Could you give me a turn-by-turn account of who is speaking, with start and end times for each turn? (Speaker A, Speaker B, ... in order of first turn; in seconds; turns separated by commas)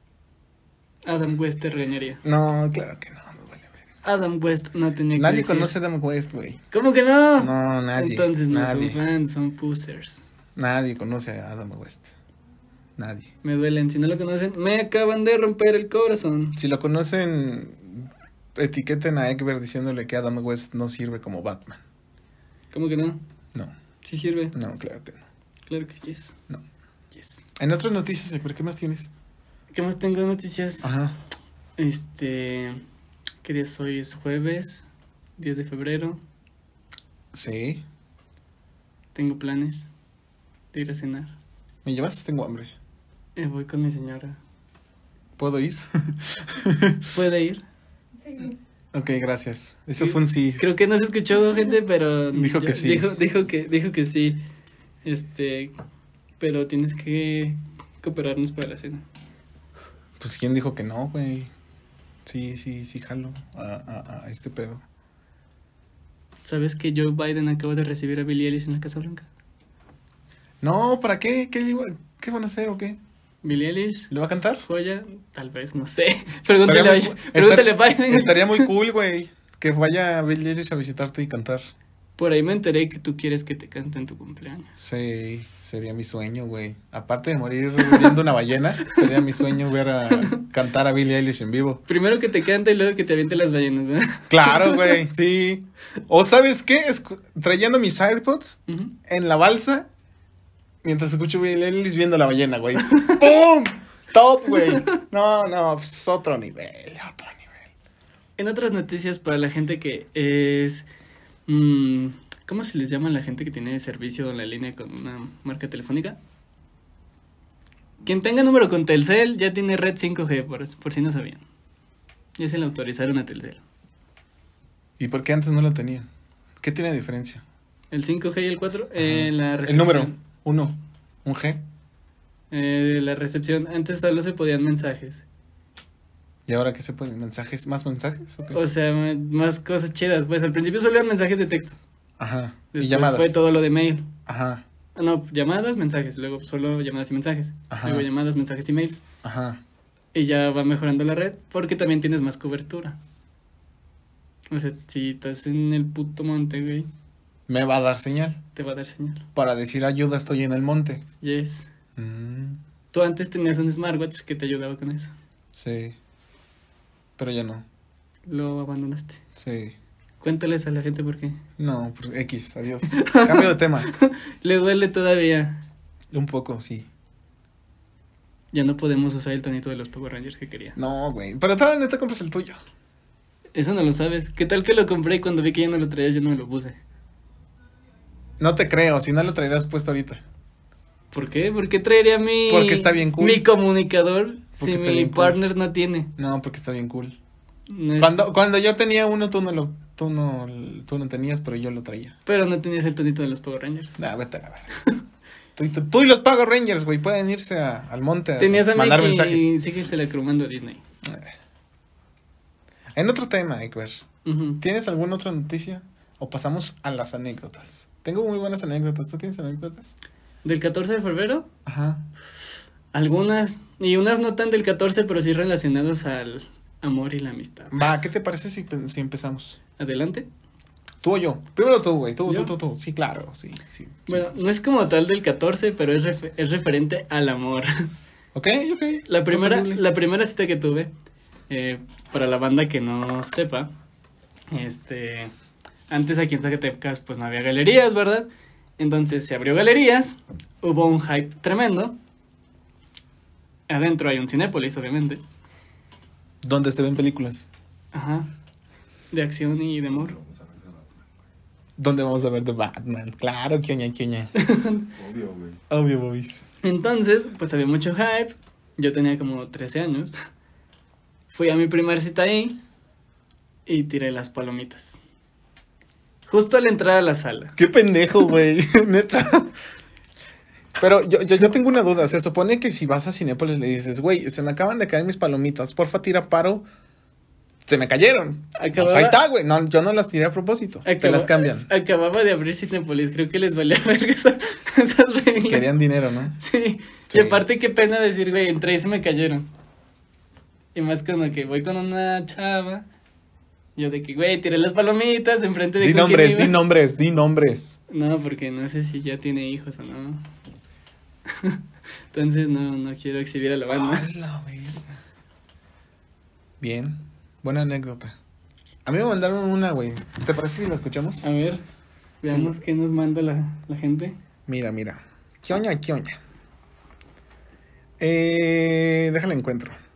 Speaker A: 1.1-2.2, Speaker B: 2.2-3.7, Speaker A: 4.0-5.7, Speaker B: 5.2-6.6, Speaker A: 6.7-10.2, Speaker B: 7.4-9.0, Speaker B: 10.6-12.1, Speaker B: 13.0-13.3, Speaker A: 13.4-16.6, Speaker B: 16.6-21.8, Speaker A: 22.7-23.2, Speaker A: 24.0-24.6, Speaker B: 24.5-25.2, Speaker A: 25.7-26.4, Speaker A: 27.1-27.4, Speaker B: 27.6-29.1, Speaker A: 29.7-30.9, Speaker B: 30.8-31.2, Speaker A: 31.8-32.8, Speaker A: 33.4-34.8, Speaker A: 35.4-36.2, Speaker B: 37.3-37.8, Speaker A: 39.1-39.9, Speaker A: 40.7-41.4, Speaker B: 41.8-42.7, Speaker A: 43.4-44.4, Speaker B: 45.4-47.1, Speaker A: 47.1-47.6, Speaker B: 48.9-50.6, Speaker A: 50.0-54.4, Speaker B: 52.3-53.1, Speaker A: 55.0-55.7, Speaker A: 56.4-59.0, Speaker B: 60.2-61.5, Speaker B: 62.2-64.8, Speaker A: 66.4-69.3, Speaker B: 70.6-73.0, Speaker A: 73.4-74.1, Speaker B: 74.1-74.6, Speaker A: 74.6-78.7, Speaker B: 76.6-81.7, Speaker A: 82.2-84.7, Speaker B: 84.8-91.8, Speaker A: 87.8-88.2, Speaker A: 88.8-89.2, Speaker A: 90.1-90.4, Speaker A: 91.9-95.0, Speaker B: 94.3-99.9, Speaker A: 98.7-98.9, Speaker B: 100.8-107.6, Speaker A: 108.4-110.9, Speaker A: 111.5-116.2, Speaker A: 118.0-121.4, Speaker A: 122.4-123.6, Speaker B: 125.0-126.1, Speaker B: 126.6-127.4, Speaker A: 127.9-130.2, Speaker B: 129.0-131.6, Speaker A: 132.5-135.2, Speaker B: 136.5-138.6, Speaker A: 138.5-141.8, Speaker B: 142.2-143.4, Speaker A: 142.7-144.1, Speaker B: 144.3-144.6, Speaker A: 145.0-149.0, Speaker B: 147.7-148.1, Speaker B: 149.2-149.6, Speaker A: 150.1-153.0, Speaker A: 154.5-156.9, Speaker B: 157.5-158.4, Speaker A: 158.6-159.2, Speaker B: 159.3-161.1, Speaker A: 161.2-161.7, Speaker B: 162.0-162.6, Speaker A: 162.9-165.1, Speaker B: 165.5-166.0, Speaker B: 167.2-167.7, Speaker A: 168.3-169.2, Speaker B: 169.3-169.8, Speaker A: 170.2-171.4, Speaker B: 171.6-173.9, Speaker A: 172.9-175.6, Speaker B: 176.1-176.9, Speaker A: 178.5-180.8, Speaker B: 180.8-182.6, Speaker A: 183.6-186.8, Speaker B: 188.4-190.2, Speaker A: 191.1-196.1, Speaker B: 192.5-193.4, Speaker B: 194.6-195.4, Speaker B: 196.2-197.2, Speaker A: 197.7-198.2, Speaker B: 198.0-202.2, Speaker A: 202.3-204.0, Speaker B: 204.0-204.7, Speaker B: 205.6-209.5, Speaker A: 208.4-210.8, Speaker B: 211.0-211.3, Speaker B: 212.9-214.1, Speaker A: 214.2-214.6, Speaker B: 214.6-219.9, Speaker A: 220.4-221.5, Speaker B: 221.7-222.1, Speaker A: 222.9-227.8, Speaker B: 227.7-229.6, Speaker A: 229.8-230.3, Speaker B: 231.0-234.4, Speaker A: 232.3-232.5, Speaker A: 234.1-237.9, Speaker B: 238.3-239.8, Speaker A: 239.1-240.9, Speaker A: 241.5-243.7, Speaker A: 244.5-245.3, Speaker A: 245.9-248.3, Speaker A: 248.8-252.0, Speaker A: 253.7-255.2, Speaker B: 256.4-257.5, Speaker A: 257.9-258.3, Speaker A: 259.1-260.1, Speaker C: 259.9-261.2, Speaker B: 261.8-264.3, Speaker A: 264.4-264.9, Speaker C: 264.9-265.6, Speaker B: 265.7-266.4, Speaker A: 266.6-270.2, Speaker A: 271.3-272.6, Speaker A: 273.7-275.0, Speaker A: 276.3-277.6, Speaker B: 277.6-279.5, Speaker B: 280.8-286.6, Speaker B: 287.7-291.7, Speaker A: 288.6-289.2, Speaker A: 290.9-295.7, Speaker B: 295.4-296.4, Speaker A: 296.4-299.5, Speaker B: 297.1-297.4, Speaker A: 300.8-302.9, Speaker A: 303.8-306.6, Speaker B: 305.8-307.8, Speaker A: 307.9-310.2, Speaker A: 311.3-311.6, Speaker A: 312.1-314.1, Speaker B: 313.7-315.0, Speaker B: 316.6-318.2, Speaker B: 318.9-321.2, Speaker A: 321.2-321.6, Speaker A: 322.2-324.2, Speaker B: 322.3-322.6, Speaker B: 324.5-326.2, Speaker B: 328.0-329.8